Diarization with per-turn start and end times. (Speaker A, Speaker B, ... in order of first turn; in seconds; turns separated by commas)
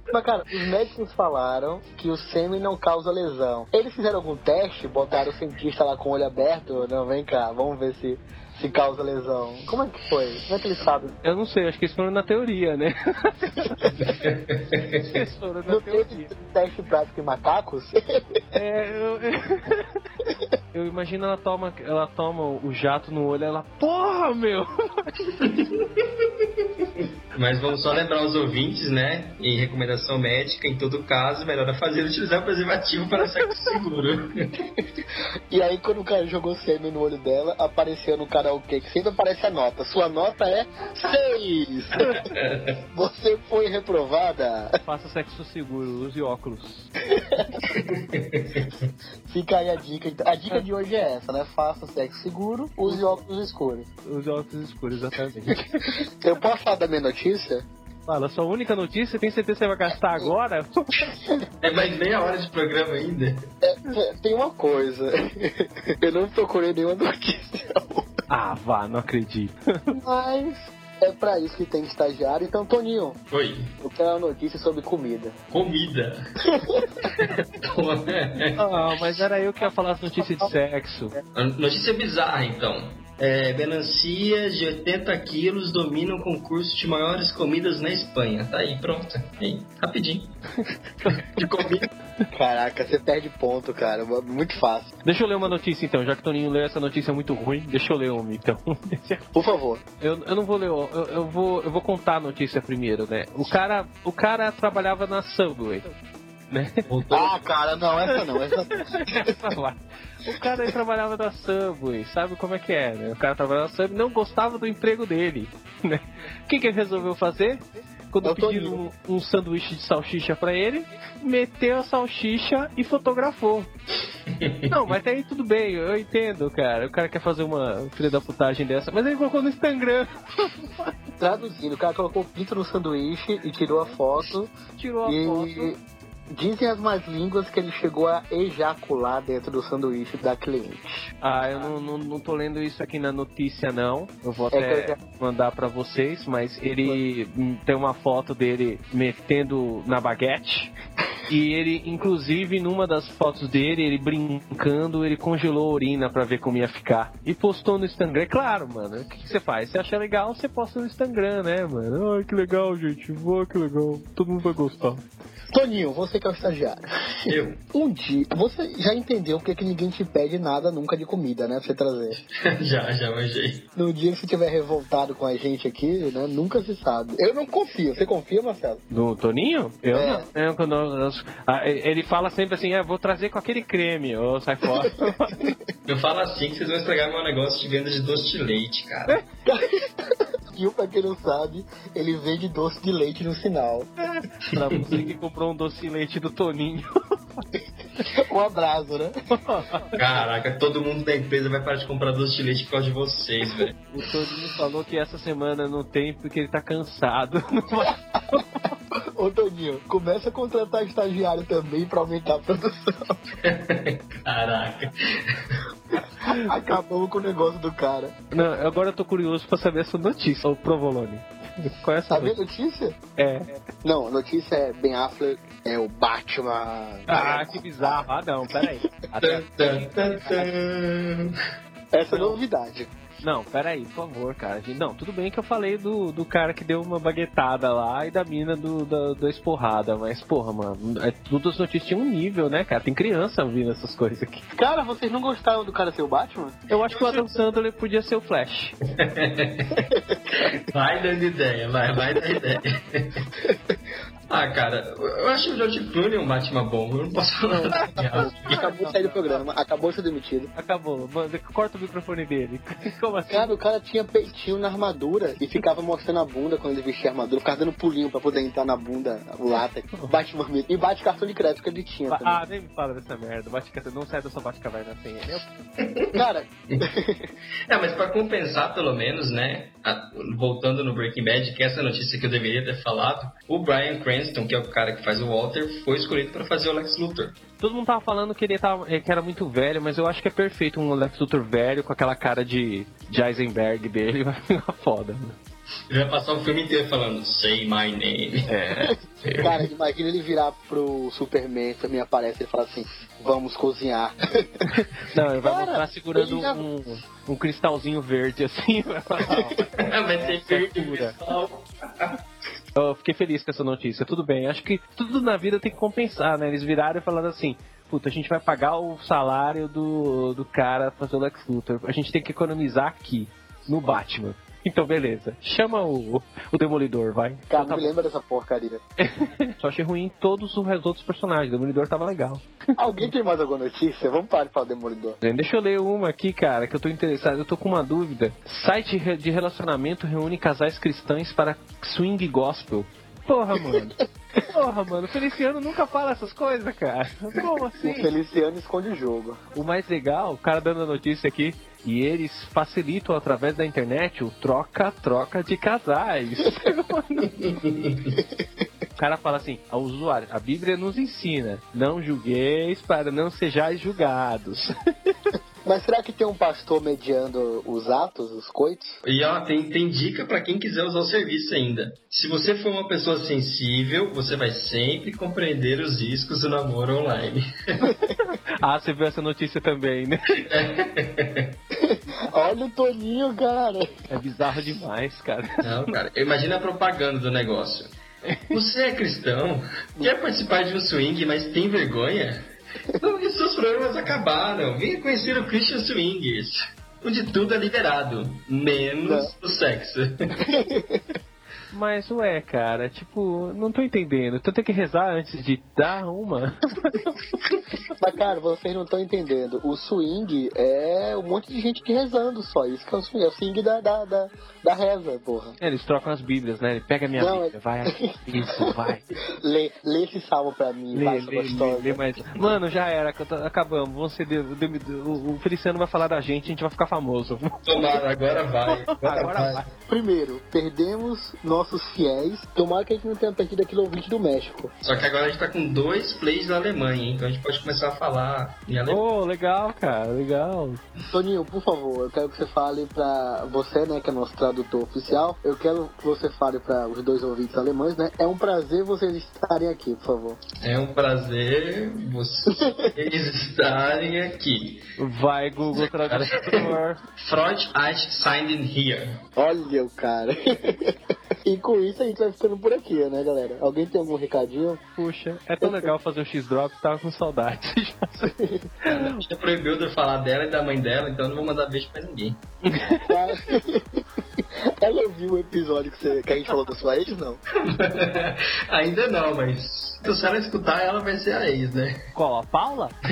Speaker A: 0.1-11.1, Speaker B: 11.2-13.9, Speaker C: 14.0-15.2, Speaker B: 15.0-16.3, Speaker A: 15.7-18.6, Speaker B: 18.6-19.8, Speaker B: 20.7-25.1, Speaker C: 25.5-34.3, Speaker A: 35.5-42.1, Speaker C: 42.3-42.8, Speaker A: 42.9-44.8, Speaker B: 44.8-46.9, Speaker A: 47.1-47.4, Speaker C: 47.7-48.7, Speaker A: 49.3-53.9, Speaker B: 52.9-53.2, Speaker B: 54.0-55.9, Speaker A: 55.9-57.6, Speaker B: 58.1-61.1, Speaker C: 61.6-63.4, Speaker A: 63.6-68.1, Speaker B: 68.3-69.6, Speaker A: 69.9-73.2, Speaker C: 73.3-73.7, Speaker A: 73.8-75.4, Speaker C: 75.5-76.2, Speaker C: 77.7-78.6, Speaker B: 78.6-81.2, Speaker A: 80.1-80.5, Speaker C: 81.3-90.4, Speaker B: 91.0-91.5, Speaker C: 91.4-91.9, Speaker A: 92.3-94.9, Speaker B: 95.0-99.2, Speaker A: 99.3-99.8, Speaker B: 100.0-105.9, Speaker B: 106.5-106.8, Speaker C: 106.9-107.4, Speaker A: 107.1-109.3, Speaker B: 108.1-123.7, Speaker A: 118.2-118.8, Speaker C: 124.4-124.7, Speaker B: 124.7-130.9, Speaker A: 131.2-134.5, Speaker B: 134.7-135.7, Speaker A: 135.1-135.8, Speaker A: 136.3-141.1, Speaker B: 141.2-150.7, Speaker A: 144.5-145.0, Speaker B: 151.3-165.0, Speaker A: 165.5-172.2, Speaker C: 167.3-167.6, Speaker C: 172.4-173.7, Speaker A: 173.8-178.8, Speaker B: 178.9-185.6, Speaker A: 179.9-180.3, Speaker C: 185.9-189.2, Speaker A: 189.4-193.9, Speaker B: 194.0-197.4, Speaker A: 198.1-199.1, Speaker B: 199.3-199.9, Speaker C: 200.0-203.7, Speaker B: 203.9-208.7, Speaker A: 209.2-213.2, Speaker C: 213.4-214.9, Speaker A: 216.1-218.2, Speaker B: 218.3-222.3, Speaker A: 222.1-223.0, Speaker B: 223.2-223.6, Speaker A: 223.8-228.0, Speaker B: 227.1-230.5, Speaker C: 229.2-231.3, Speaker A: 231.9-232.9, Speaker B: 232.1-232.4, Speaker B: 233.2-244.4, Speaker A: 244.5-246.6, Speaker B: 246.7-248.7, Speaker C: 246.9-247.2, Speaker C: 249.1-249.8, Speaker A: 249.9-250.4, Speaker C: 250.7-253.3, Speaker A: 253.4-253.7, Speaker C: 254.3-258.6, Speaker B: 257.5-259.4, Speaker A: 258.0-260.5, Speaker B: 260.6-263.5, Speaker A: 263.3-272.4, Speaker B: 272.1-275.5, Speaker C: 276.0-276.8, Speaker A: 276.1-277.3, Speaker C: 277.7-287.4, Speaker B: 287.6-295.4, Speaker C: 295.9-298.5, Speaker B: 298.5-299.5, Speaker A: 298.9-304.4, Speaker C: 299.3-299.5, Speaker B: 304.6-311.1, Speaker A: 305.4-306.6, Speaker C: 309.8-312.1, Speaker B: 312.8-327.9, Speaker A: 327.5-328.8, Speaker B: 329.0-332.4, Speaker A: 332.8-335.2, Speaker B: 335.2-344.0, Speaker B: 344.5-348.1, Speaker A: 347.8-349.4, Speaker B: 349.5-357.3, Speaker C: 357.4-358.1, Speaker A: 358.1-358.4, Speaker B: 359.0-364.7, Speaker A: 365.6-369.0, Speaker C: 369.0-377.9, Speaker A: 377.9-378.1, Speaker B: 378.2-380.4, Speaker C: 380.5-381.6, Speaker A: 381.8-383.9, Speaker B: 382.1-382.3, Speaker B: 384.1-385.8, Speaker C: 385.6-387.9, Speaker B: 388.3-388.6, Speaker C: 388.5-400.1, Speaker A: 399.1-399.3, Speaker A: 400.5-401.0, Speaker B: 401.7-407.1, Speaker A: 408.0-415.6, Speaker B: 415.6-419.1, Speaker A: 417.2-418.7, Speaker A: 419.4-422.0, Speaker B: 420.9-427.9, Speaker C: 427.6-429.6, Speaker B: 429.0-429.6, Speaker A: 429.9-434.7, Speaker C: 434.8-439.0, Speaker B: 438.9-440.8, Speaker A: 441.1-450.4, Speaker C: 450.6-454.8, Speaker B: 455.0-457.0, Speaker C: 455.8-459.2, Speaker A: 459.4-460.9, Speaker A: 461.4-464.8, Speaker B: 465.0-468.3, Speaker A: 465.6-465.9, Speaker A: 468.2-468.6, Speaker C: 468.9-472.4, Speaker B: 472.6-473.1, Speaker A: 473.1-473.8, Speaker A: 474.8-477.4, Speaker C: 477.7-482.0, Speaker B: 482.1-482.9